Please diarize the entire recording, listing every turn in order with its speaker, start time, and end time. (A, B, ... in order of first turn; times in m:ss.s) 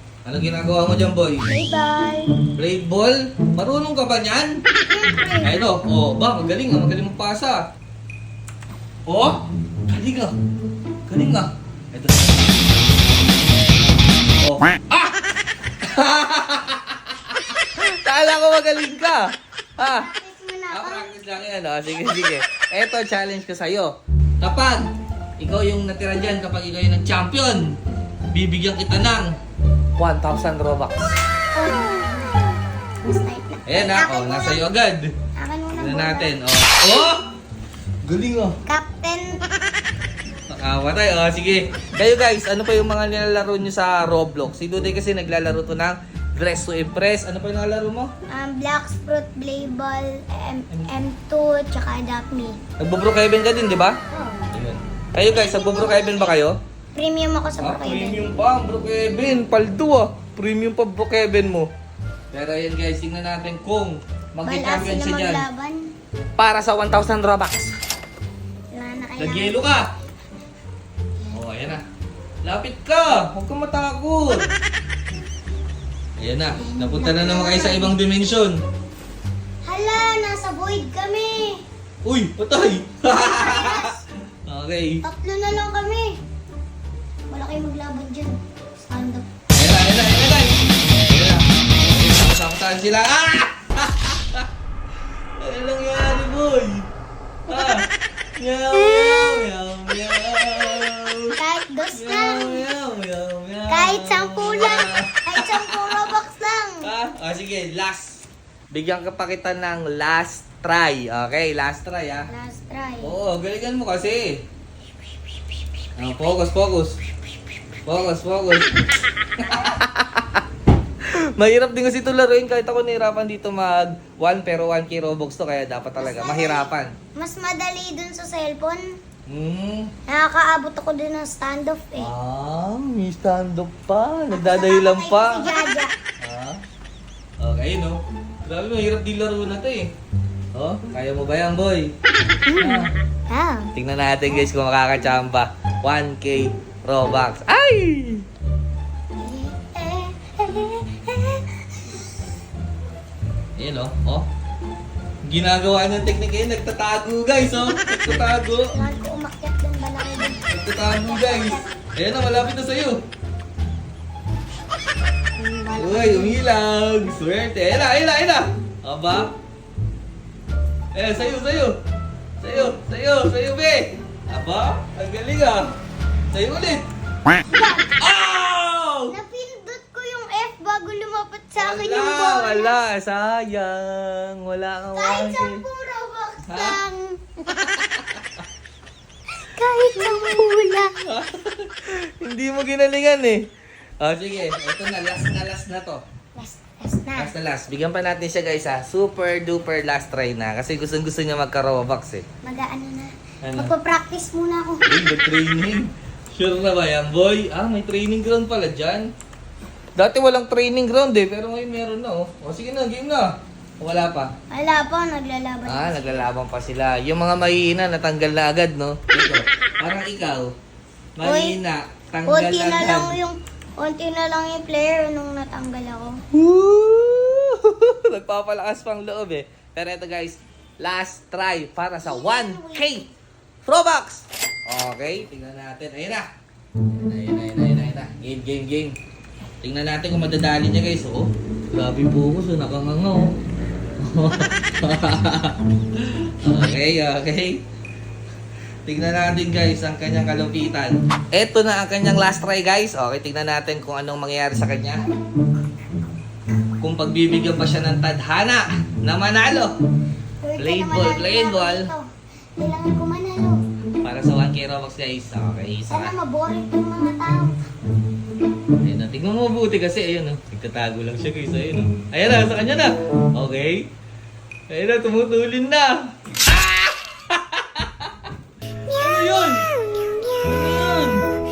0:00.2-0:01.5 A
0:01.5-0:02.4 B
0:02.6-0:04.6 A
0:04.9-0:05.5 B
0:05.4-0:07.6 A
0:09.1-0:10.4 A
0:11.1-0:12.5 A
0:14.4-0:15.2 A
0:15.8-0:20.1 A
0:19.8-0:21.1 B
0:20.7-0:24.9 A
0:25.4-0:27.8 A
0:28.3-0:29.4 A
0:30.0-0:31.1 A
0:31.5-0:32.4 B
0:33.0-0:34.7 B
0:33.7-0:35.1 A
0:35.4-0:36.3 B
0:35.8-0:37.3 A
0:38.0-0:38.6 A
0:38.7-0:39.4 B
0:40.5-0:48.1 A
0:48.3-0:52.6 B
0:52.8-0:54.0 A
0:54.1-0:54.5 B
0:54.5-0:56.6 A
0:55.5-0:56.0 B
0:56.9-0:58.2 B
0:57.6-1:01.7 A
1:02.3-1:05.4 A
1:04.4-1:05.9 B
1:06.4-1:07.7 A
1:08.7-1:10.0 B
1:09.2-1:09.9 A
1:11.3-1:11.8 A
1:12.4-1:14.5 A
1:16.2-1:18.6 A
1:16.6-1:17.9 B
1:19.6-1:21.6 B
1:22.0-1:23.9 A
1:23.1-1:24.0 B
1:24.4-1:25.0 A
1:25.0-1:26.2 B
1:27.3-1:29.2 B
1:29.6-1:34.5 A
1:35.4-1:36.9 A
1:37.5-1:37.8 B
1:37.5-1:37.9 A
1:38.4-1:41.3 A
1:38.7-1:39.5 B
1:41.4-1:42.7 B
1:41.9-1:46.1 A
1:43.7-1:46.9 B
1:46.8-1:52.3 A
1:52.3-1:53.1 B
1:53.0-1:54.4 A
1:56.0-1:57.0 A
1:57.9-1:58.7 A
1:59.4-2:00.4 A
2:01.1-2:06.9 A
2:06.0-2:08.8 B
2:09.3-2:09.9 A
2:10.1-2:12.1 B
2:12.0-2:15.5 A
2:14.3-2:16.0 B
2:16.2-2:16.6 A
2:17.4-2:19.9 A
2:20.6-2:21.9 A
2:22.5-2:23.7 B
2:22.6-2:22.9 A
2:23.8-2:28.2 A
2:29.2-2:32.0 B
2:33.6-2:34.3 A
2:35.2-2:38.7 A
2:38.7-2:41.7 B
2:40.5-2:43.0 A
2:45.4-2:46.4 B
2:45.8-2:49.3 A
2:50.9-2:51.8 A
2:52.4-2:55.7 A
2:56.3-2:56.8 A
2:57.4-2:57.9 B
2:58.0-2:59.1 A
2:59.1-3:02.8 B
3:01.6-3:05.6 A
3:04.9-3:07.2 B
3:06.5-3:06.8 A
3:07.6-3:08.2 A
3:09.4-3:11.0 B
3:11.0-3:13.4 A
3:14.0-3:16.0 A
3:16.3-3:17.3 B
3:17.2-3:22.2 A
3:22.4-3:24.8 B
3:23.4-3:23.7 A
3:24.8-3:29.1 A
3:30.0-3:34.3 A
3:34.5-3:36.3 B
3:35.7-3:40.5 A
3:41.2-3:43.2 A
3:41.2-3:41.6 B
3:42.3-3:46.2 B
3:46.3-3:53.1 A
3:52.0-3:52.9 B
3:53.7-3:56.3 A
3:56.9-3:59.0 A
3:59.6-4:03.3 A
4:04.0-4:07.6 A
4:08.8-4:15.0 A
4:16.8-4:19.7 A
4:20.4-4:23.6 B
4:20.6-4:21.9 A
4:24.0-4:26.1 A
4:25.9-4:27.6 B
4:28.8-4:33.9 A
4:34.7-4:38.3 A
4:38.9-4:39.7 A
4:39.0-4:40.8 B
4:40.4-4:41.2 A